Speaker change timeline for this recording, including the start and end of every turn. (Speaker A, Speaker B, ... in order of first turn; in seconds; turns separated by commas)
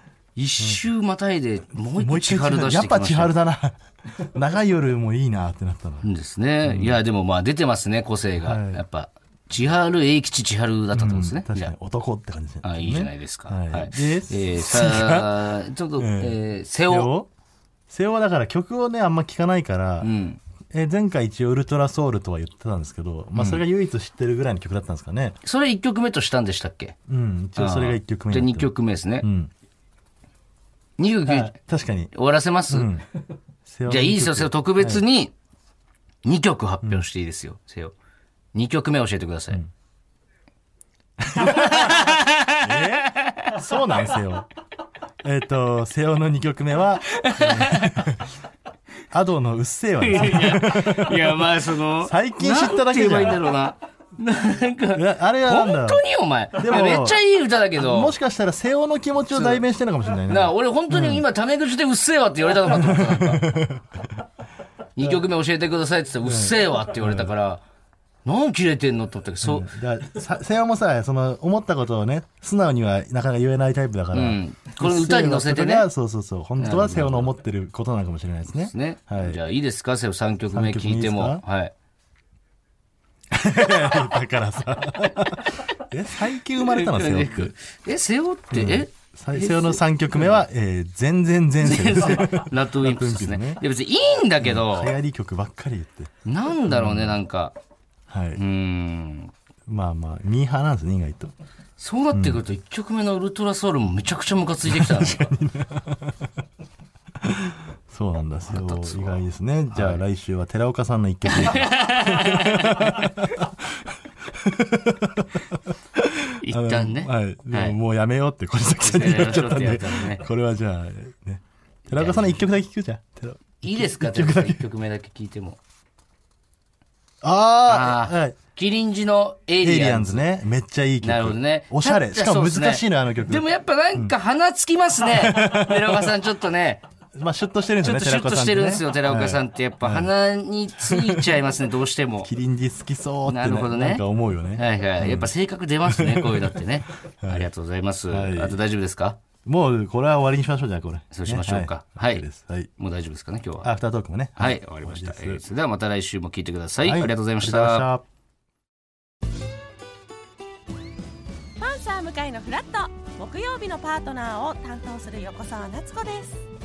Speaker A: 0.4-3.4, Speaker B: 2.0-6.1, Speaker A: 6.0-11.7, Speaker B: 6.7-7.0, Speaker B: 8.4-8.8, Speaker B: 10.9-15.4, Speaker A: 12.6-17.1, Speaker B: 16.0-17.3, Speaker B: 17.9-20.1, Speaker A: 20.0-20.4, Speaker B: 20.7-25.4, Speaker A: 25.4-26.9, Speaker B: 27.1-29.5, Speaker A: 27.6-29.2, Speaker A: 31.0-31.5, Speaker B: 31.3-32.1, Speaker A: 32.1-32.9, Speaker B: 32.7-33.0, Speaker B: 33.7-35.0, Speaker A: 33.9-35.3, Speaker A: 36.2-38.0, Speaker A: 38.5-39.6, Speaker B: 41.2-44.5, Speaker A: 41.4-43.5, Speaker B: 45.2-48.2, Speaker A: 47.1-48.0, Speaker B: 49.1-53.5, Speaker A: 50.0-58.1, Speaker B: 54.9-56.0, Speaker B: 56.6-57.2, Speaker B: 57.8-61.2, Speaker A: 59.3-59.6, Speaker A: 60.3-63.5, Speaker B: 62.6-64.0, Speaker A: 65.0-67.6, Speaker B: 66.2-67.3, Speaker A: 68.2-69.7, Speaker B: 69.4-79.4, Speaker A: 74.1-75.9, Speaker A: 76.6-77.3, Speaker A: 78.5-81.7, Speaker B: 80.5-81.4, Speaker B: 83.3-87.5, Speaker A: 85.5-85.7, Speaker A: 86.6-90.4, Speaker B: 88.5-93.6, Speaker A: 91.6-94.9, Speaker B: 94.4-96.1, Speaker A: 96.2-97.6, Speaker B: 96.7-97.2, Speaker B: 98.1-98.4, Speaker A: 98.4-99.3, Speaker B: 99.7-101.3, Speaker A: 101.8-105.2, Speaker B: 102.1-102.4, Speaker B: 104.7-106.2, Speaker B: 107.2-113.5, Speaker A: 108.5-109.2, Speaker A: 109.7-110.0, Speaker A: 111.3-113.1, Speaker B: 114.3-124.7, Speaker A: 116.4-117.8, Speaker A: 118.8-120.3, Speaker A: 121.9-122.5, Speaker A: 123.6-125.6, Speaker B: 127.2-128.4, Speaker A: 127.7-130.3, Speaker B: 129.6-134.1, Speaker A: 131.0-136.8, Speaker B: 135.1-136.1, Speaker B: 137.2-140.1, Speaker A: 137.8-142.3, Speaker B: 140.8-141.4, Speaker B: 142.2-145.3, Speaker A: 143.3-144.0, Speaker A: 144.6-149.2, Speaker B: 145.8-146.6, Speaker B: 147.2-147.5, Speaker B: 148.1-148.6, Speaker B: 149.5-152.7, Speaker A: 151.1-152.2, Speaker A: 152.8-153.7, Speaker B: 153.6-155.4, Speaker A: 154.4-157.8, Speaker B: 156.8-158.0, Speaker C: 161.6-166.4